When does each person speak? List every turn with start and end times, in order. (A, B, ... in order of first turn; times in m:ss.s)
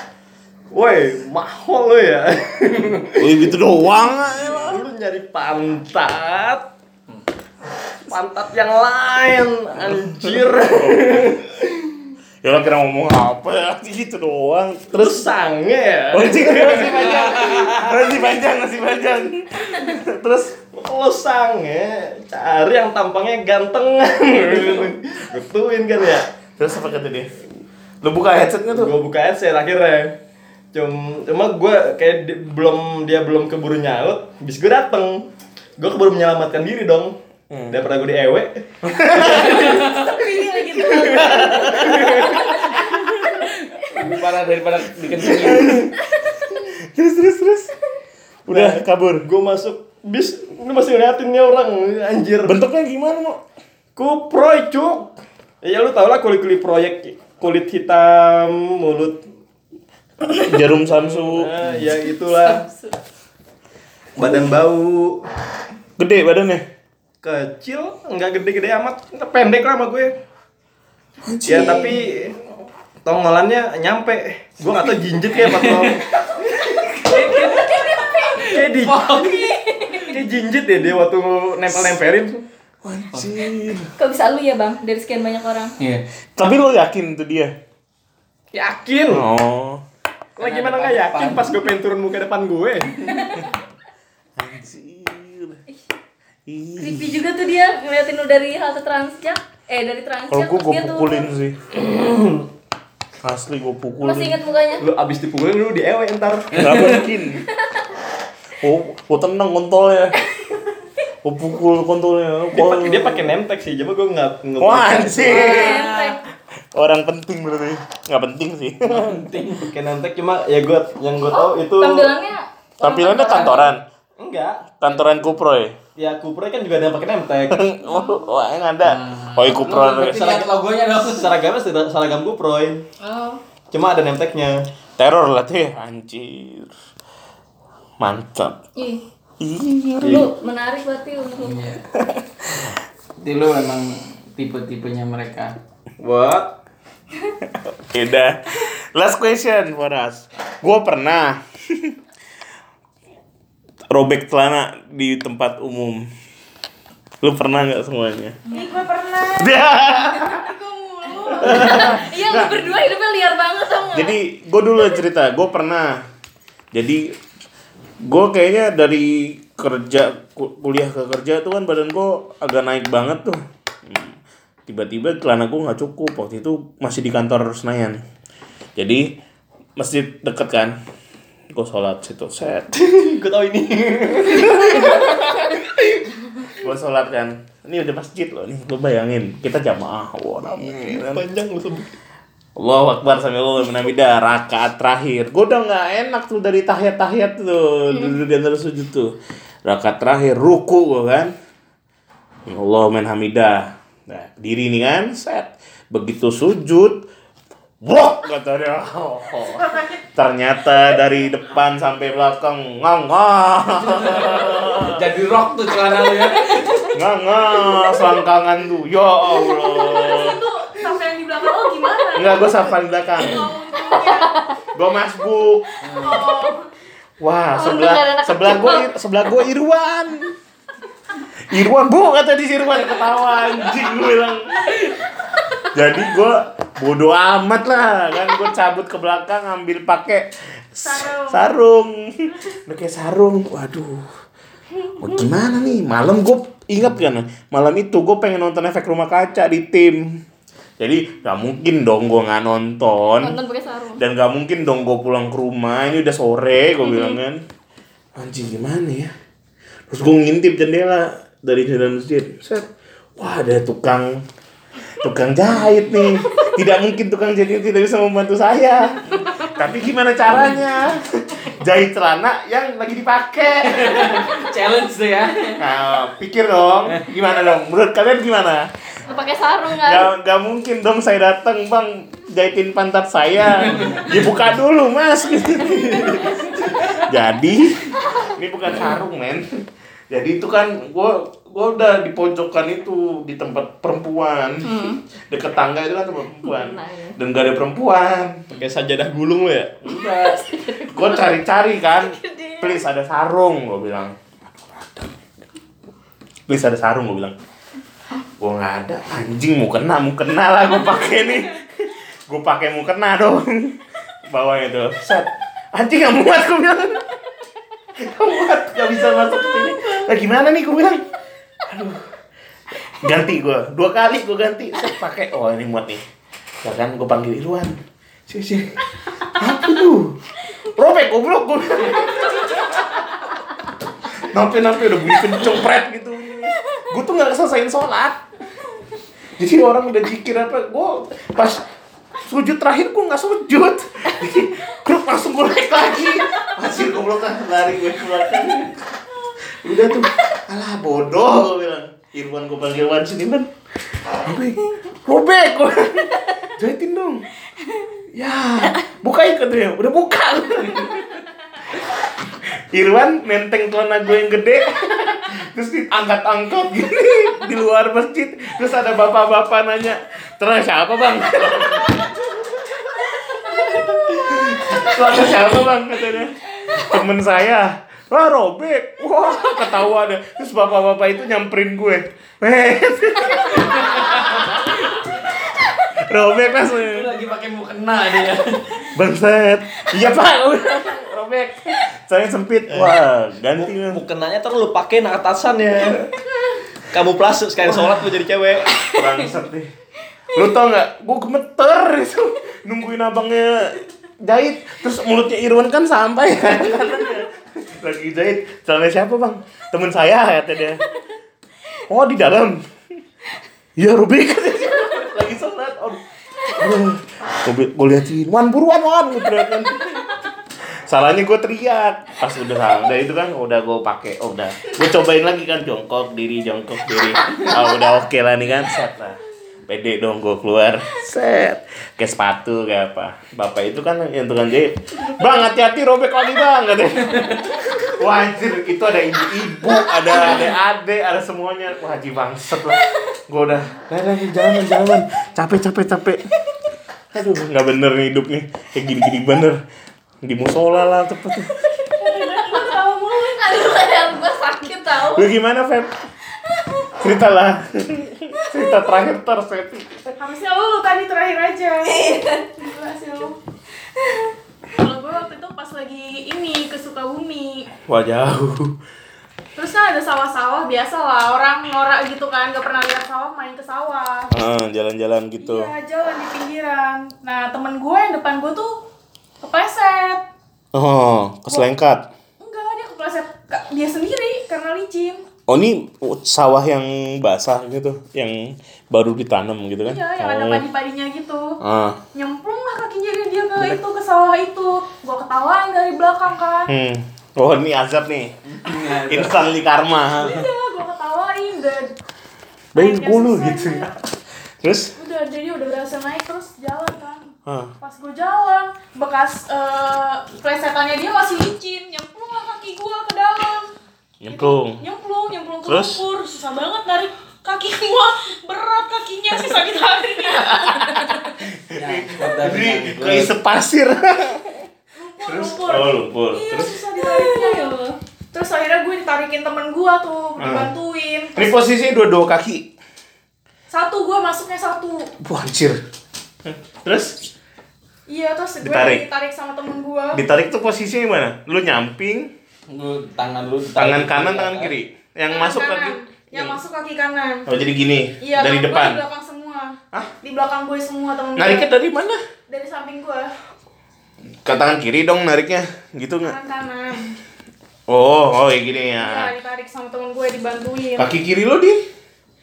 0:00.7-0:03.5 A
0:03.2-0:04.8 B
0:04.2-0:06.7 A
0:08.1-0:12.0 A
0:10.2-0:11.3 B
0:12.4-0:15.2 B
0:14.9-0:18.3 A
0:16.1-0:20.5 B
0:20.7-0:26.3 A
0:24.5-0:24.8 C
0:26.6-0:27.3 B
0:28.0-0:28.9 B
0:28.7-0:30.1 A
0:30.7-0:37.2 A
0:37.5-0:37.8 B
0:37.7-0:39.6 A
0:38.8-0:39.8 B
0:39.2-0:40.1 C
0:39.6-0:42.8 D
0:40.8-0:43.4 B
0:41.8-0:42.4 A
0:43.3-0:45.9 C
0:45.2-0:46.0 B
0:46.7-0:47.7 B
0:48.5-0:49.2 B
0:48.5-0:52.6 A
0:52.4-0:53.4 B
0:54.0-0:59.2 A
1:00.3-1:01.5 B
1:00.9-1:02.6 A
1:02.4-1:02.9 D
1:04.2-1:05.2 A
1:04.2-1:04.4 B
1:06.0-1:06.6 B
1:07.2-1:10.2 A
1:11.2-1:12.0 B
1:11.4-1:12.4 A
1:13.0-1:17.6 A
1:15.3-1:16.0 C
1:16.7-1:19.6 C
1:17.5-1:18.5 D
1:18.5-1:19.1 A
1:19.1-1:20.1 D
1:20.0-1:22.4 A
1:22.8-1:23.9 B
1:24.0-1:25.7 D
1:26.4-1:27.5 B
1:28.5-1:29.2 A
1:29.1-1:29.8 B
1:30.4-1:32.9 A
1:30.4-1:31.5 C
1:34.4-1:35.6 B
1:36.5-1:37.2 B
1:36.8-1:41.3 D
1:40.3-1:41.5 B
1:41.7-1:42.5 A
1:43.2-1:44.4 B
1:44.0-1:44.8 D
1:44.8-1:47.0 A
1:46.5-1:47.4 B
1:48.6-1:50.2 B
1:51.2-1:53.2 B
1:52.5-1:55.6 A
1:54.6-1:55.9 B
1:55.3-1:56.2 D
1:55.4-1:56.2 C
1:56.7-1:59.3 B
1:58.8-1:59.7 C
1:59.7-2:02.1 A
2:01.3-2:03.7 D
2:02.8-2:03.8 B
2:04.2-2:05.2 A
2:04.8-2:05.8 B
2:06.0-2:07.6 A
2:07.5-2:10.3 B
2:07.8-2:08.2 D
2:08.8-2:11.3 C
2:10.0-2:12.9 A
2:13.0-2:13.4 D
2:13.7-2:14.6 A
2:15.0-2:16.7 B
2:18.0-2:18.6 B
2:18.8-2:19.0 D
2:19.4-2:20.3 B
2:20.0-2:20.3 A
2:20.0-2:21.6 D
2:21.4-2:21.8 C
2:22.0-2:22.7 B
2:23.2-2:25.5 C
2:26.0-2:26.6 A
2:27.6-2:31.9 B
2:33.9-2:36.1 B
2:37.2-2:38.4 B
2:38.5-2:38.8 D
2:38.5-2:39.6 E
2:39.4-2:40.4 B
2:40.2-2:42.0 E
2:41.1-2:44.2 D
2:41.4-2:42.7 B
2:43.9-2:46.0 B
2:46.7-2:47.1 B
2:48.0-2:54.2 B
2:54.7-2:58.0 B
2:58.8-2:59.2 B
2:59.8-3:00.8 B
3:01.5-3:02.7 B
3:02.7-3:06.0 A
3:06.6-3:11.2 B
3:10.4-3:12.0 A
3:12.6-3:21.3 B
3:17.9-3:18.2 D
3:22.5-3:27.1 B
3:27.8-3:35.0 B
3:29.4-3:30.0 E
3:34.0-3:36.7 C
3:36.4-3:36.9 D
3:36.9-3:40.4 B
3:39.5-3:44.4 E
3:39.6-3:40.2 D
3:42.1-3:43.5 B
3:43.8-3:44.5 D
3:44.7-3:45.7 B
3:45.8-3:46.2 C
3:45.9-3:46.7 E
3:47.2-3:50.3 B
3:47.5-3:48.9 D
3:51.5-3:54.9 B
3:55.7-4:04.0 B
4:00.8-4:01.5 E
4:04.8-4:05.3 D
4:05.0-4:10.2 B
4:10.8-4:13.4 B
4:13.2-4:14.0 D
4:14.0-4:17.4 B
4:16.8-4:17.2 D
4:18.2-4:19.1 B
4:19.9-4:24.2 B
4:25.0-4:34.4 B
4:26.2-4:26.5 D
4:29.2-4:29.5 D
4:33.6-4:35.6 C
4:35.6-4:38.7 B
4:39.1-4:40.1 D
4:39.8-4:49.5 B
4:43.6-4:44.3 C
4:45.8-4:47.1 D
4:50.1-4:54.7 B
4:54.6-4:55.0 D
4:55.3-4:58.4 B
4:56.4-4:57.2 D
4:58.5-4:59.8 A
4:59.8-5:05.2 B
5:00.0-5:01.3 D
5:02.2-5:02.8 D
5:06.5-5:07.3 B
5:08.4-5:13.8 B
5:14.3-5:17.0 B
5:18.0-5:21.0 B
5:21.7-5:22.0 B
5:22.9-5:26.0 B
5:26.6-5:28.7 B
5:29.3-5:33.0 B
5:34.2-5:38.2 B
5:39.4-5:41.6 B
5:42.2-5:48.8 B
5:49.6-5:53.5 B
5:54.2-5:57.2 B
5:58.1-6:01.2 B
6:02.5-6:12.2 B
6:13.3-6:25.1 B
6:25.9-6:27.1 B
6:26.8-6:28.8 C
6:28.9-6:34.0 B
6:32.7-6:32.9 A
6:33.6-6:36.1 A
6:36.9-6:38.8 A
6:37.7-6:37.9 B
6:38.9-6:39.7 B
6:40.3-6:50.8 B
6:51.9-6:52.6 B
6:53.8-7:00.2 B
7:00.9-7:26.2 B
7:19.7-7:20.4 D
7:27.1-7:29.6 B
7:30.2-7:31.6 B
7:32.0-7:33.5 E
7:32.0-7:35.3 D
7:35.0-7:35.9 B
7:36.5-7:36.9 D
7:37.0-7:40.1 B
7:40.2-7:43.4 E
7:41.8-7:42.5 D
7:44.0-7:44.3 D
7:44.7-7:47.7 E
7:47.9-7:48.7 B
7:49.6-7:54.3 E
7:54.3-7:55.7 B
7:55.4-7:58.8 E
7:59.4-8:00.2 E
8:00.7-8:02.1 B
8:02.4-8:05.2 E
8:05.5-8:10.6 B
8:09.8-8:11.6 E
8:11.6-8:12.0 B
8:12.1-8:16.7 E
8:16.7-8:18.3 B
8:18.4-8:19.4 C
8:19.1-8:20.4 B
8:20.2-8:21.9 E
8:22.7-8:24.0 B
8:22.8-8:23.9 E
8:24.6-8:24.9 B
8:25.0-8:27.3 E
8:27.4-8:27.7 B
8:27.8-8:33.7 E
8:34.2-8:34.8 B
8:34.3-8:41.2 E
8:35.7-8:36.0 B
8:40.3-8:44.6 B
8:41.7-8:43.3 C
8:45.0-8:47.8 E
8:45.2-8:46.8 B
8:47.0-8:48.0 D
8:48.3-8:51.5 E
8:50.4-8:50.7 B
8:51.3-8:52.7 B
8:53.7-8:55.1 E
8:55.2-8:55.8 B
8:56.4-8:57.3 B
8:58.1-9:00.2 E
8:58.6-8:59.0 B
9:00.1-9:02.3 B
9:02.7-9:04.7 C
9:03.8-9:06.6 B
9:05.3-9:07.4 E
9:07.5-9:09.0 B
9:08.2-9:11.7 E
9:11.4-9:12.2 B
9:12.5-9:13.3 E
9:14.4-9:16.3 B
9:16.2-9:17.1 E
9:17.9-9:19.3 B
9:19.0-9:21.1 E
9:21.0-9:21.8 B